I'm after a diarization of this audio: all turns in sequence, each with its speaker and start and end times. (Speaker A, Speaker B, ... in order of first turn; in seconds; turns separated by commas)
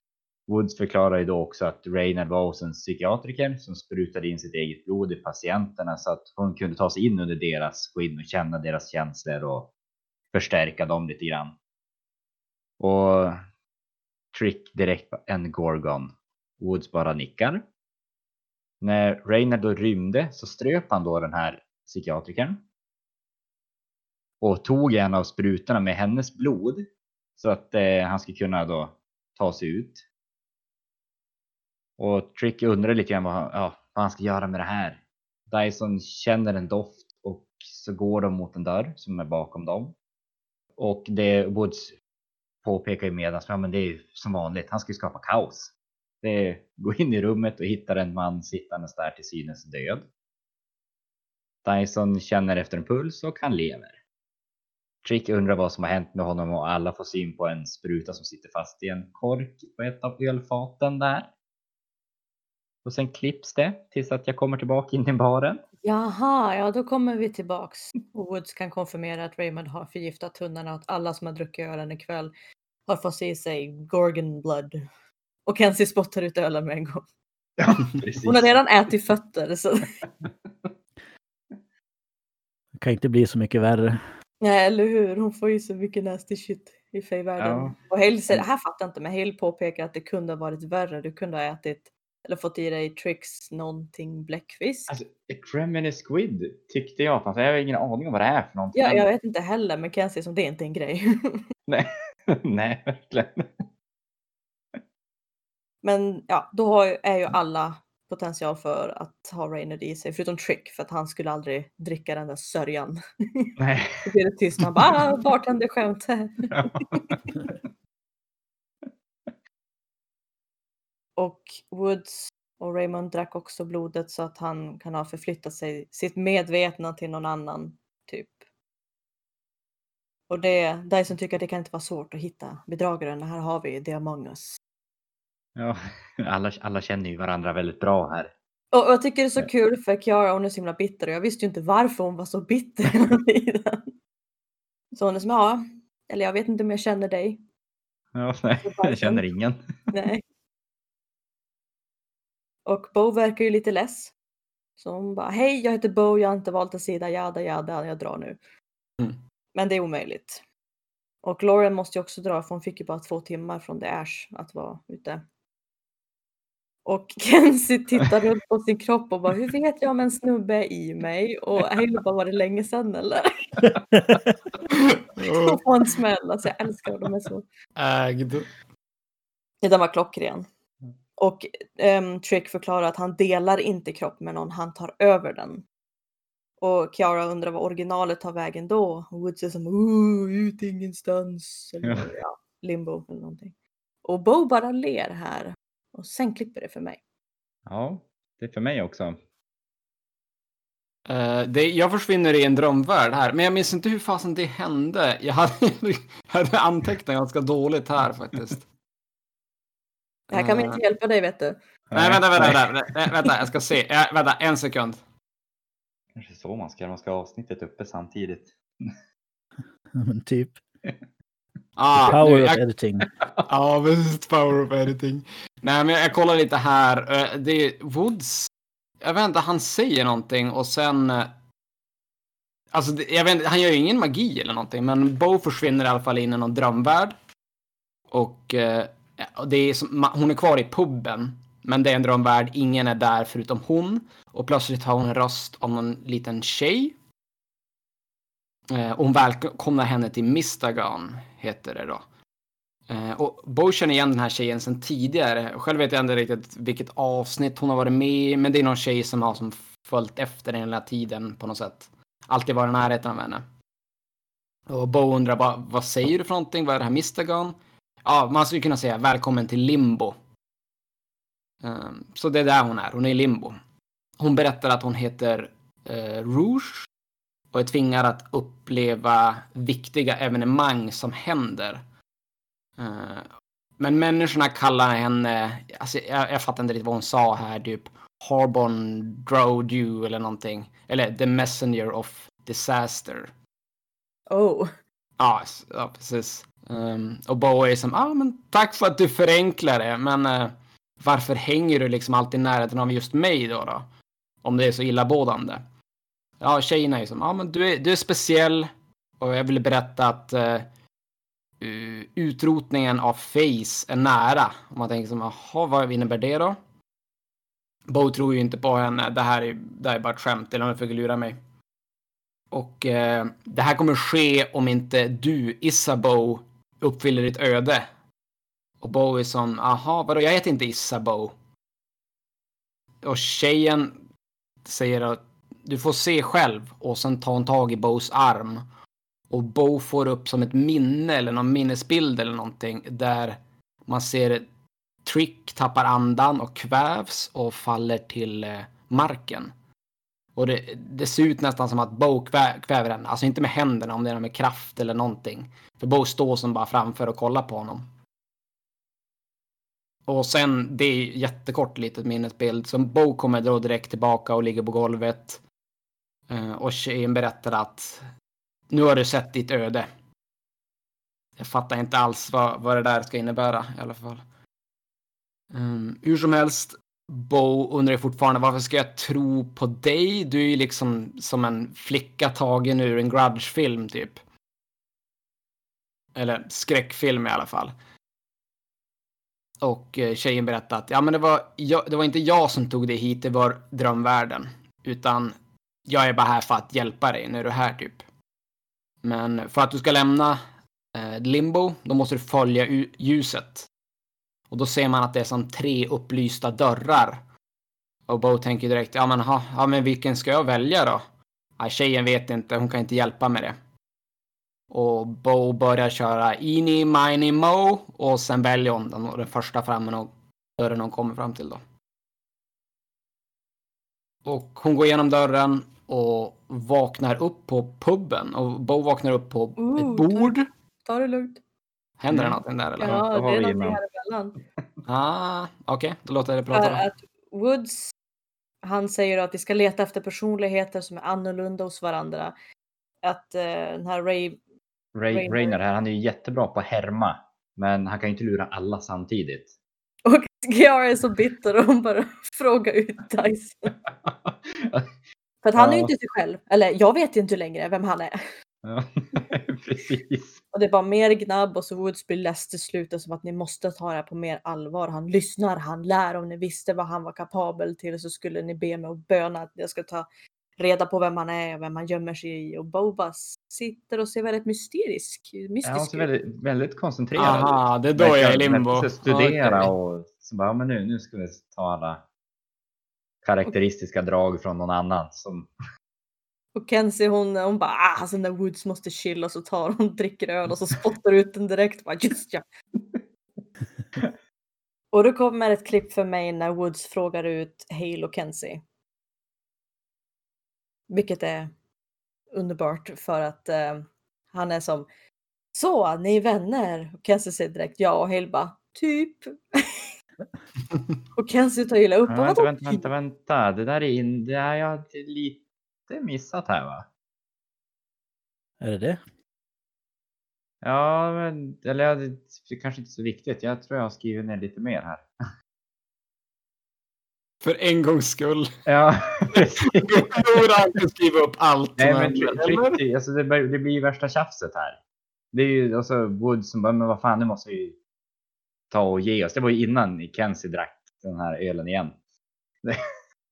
Speaker A: 0.5-9.7, Speaker A: 10.3-11.5, Speaker A: 12.8-13.4, Speaker A: 14.3-17.6, Speaker A: 18.8-22.6, Speaker A: 24.4-26.9, Speaker A: 27.4-30.0, Speaker A: 32.0-39.9, Speaker A: 40.8-41.9, Speaker A: 42.6-50.1, Speaker A: 51.6-54.0, Speaker A: 55.0-61.3, Speaker A: 62.8-65.6, Speaker B: 65.8-72.3, Speaker B: 72.9-74.8, Speaker B: 75.5-77.0, Speaker A: 77.6-78.5, Speaker B: 78.2-79.9, Speaker C: 82.8-84.0, Speaker B: 84.4-94.9, Speaker A: 87.4-87.8, Speaker A: 94.9-99.1, Speaker B: 98.7-101.4, Speaker A: 101.7-103.5, Speaker B: 105.8-113.5, Speaker A: 113.6-114.0, Speaker B: 114.0-117.1, Speaker A: 114.6-114.8, Speaker A: 116.5-117.4, Speaker B: 121.2-128.4, Speaker B: 130.3-134.6, Speaker A: 135.6-138.3, Speaker B: 138.7-143.9, Speaker B: 144.9-147.4, Speaker A: 148.1-149.6, Speaker B: 148.6-149.2, Speaker B: 149.9-150.2, Speaker B: 152.7-154.1, Speaker B: 154.8-158.4, Speaker B: 159.5-160.4, Speaker B: 161.2-165.2, Speaker B: 166.8-173.4, Speaker D: 174.7-175.6, Speaker B: 175.2-177.4, Speaker D: 177.8-178.5, Speaker B: 179.6-180.5, Speaker B: 181.2-185.6, Speaker B: 186.6-197.0, Speaker A: 197.7-199.2, Speaker D: 201.1-208.6, Speaker D: 210.3-210.8, Speaker B: 210.3-211.6, Speaker A: 211.9-212.7, Speaker D: 211.9-215.0, Speaker A: 216.2-218.9, Speaker C: 219.9-220.6, Speaker D: 221.8-222.6, Speaker C: 222.0-223.1, Speaker D: 223.5-231.3, Speaker D: 232.7-237.2, Speaker D: 238.1-246.9, Speaker D: 248.7-252.0, Speaker D: 252.9-263.4, Speaker D: 264.7-270.1, Speaker D: 271.6-273.6, Speaker D: 274.2-276.9, Speaker D: 277.5-281.8, Speaker D: 282.8-293.3, Speaker B: 294.3-294.7, Speaker D: 295.2-303.8, Speaker D: 304.4-305.6, Speaker D: 306.4-310.7, Speaker D: 311.6-316.6, Speaker D: 317.9-321.4, Speaker D: 322.5-327.9, Speaker D: 328.8-331.3, Speaker D: 333.0-333.9, Speaker D: 334.6-338.6, Speaker D: 339.3-344.4, Speaker D: 345.0-349.5, Speaker D: 350.4-357.8, Speaker D: 360.1-365.4, Speaker D: 366.3-368.1, Speaker D: 368.7-369.9, Speaker D: 371.4-374.2, Speaker D: 375.5-384.2, Speaker D: 386.1-387.7, Speaker D: 389.6-395.3, Speaker D: 395.9-398.0, Speaker D: 399.0-400.4, Speaker D: 400.9-403.7, Speaker D: 404.5-407.2, Speaker D: 408.1-411.0, Speaker D: 411.6-413.5, Speaker D: 414.7-421.6, Speaker D: 424.2-430.4, Speaker B: 429.6-431.4, Speaker D: 432.0-433.0, Speaker A: 432.1-433.8, Speaker B: 432.8-434.4, Speaker D: 434.9-436.9, Speaker B: 436.5-437.9, Speaker B: 438.6-442.3, Speaker B: 443.0-444.4, Speaker A: 444.9-449.5, Speaker B: 445.1-445.6, Speaker B: 450.0-453.7, Speaker A: 454.1-454.9, Speaker B: 455.4-458.2, Speaker A: 455.6-455.9, Speaker A: 458.6-460.4, Speaker B: 460.5-470.1, Speaker B: 470.6-476.1, Speaker A: 475.6-482.0, Speaker D: 477.1-479.7, Speaker A: 483.2-485.5, Speaker B: 486.5-492.4, Speaker B: 494.9-498.6, Speaker B: 500.9-501.5, Speaker B: 502.3-504.9, Speaker B: 505.5-509.8, Speaker B: 511.1-512.9, Speaker A: 512.1-516.8, Speaker C: 518.6-519.0, Speaker A: 520.6-525.0, Speaker D: 527.4-528.5, Speaker A: 528.7-530.4, Speaker D: 529.4-532.8, Speaker A: 531.8-534.8, Speaker A: 535.3-537.8, Speaker A: 538.7-541.9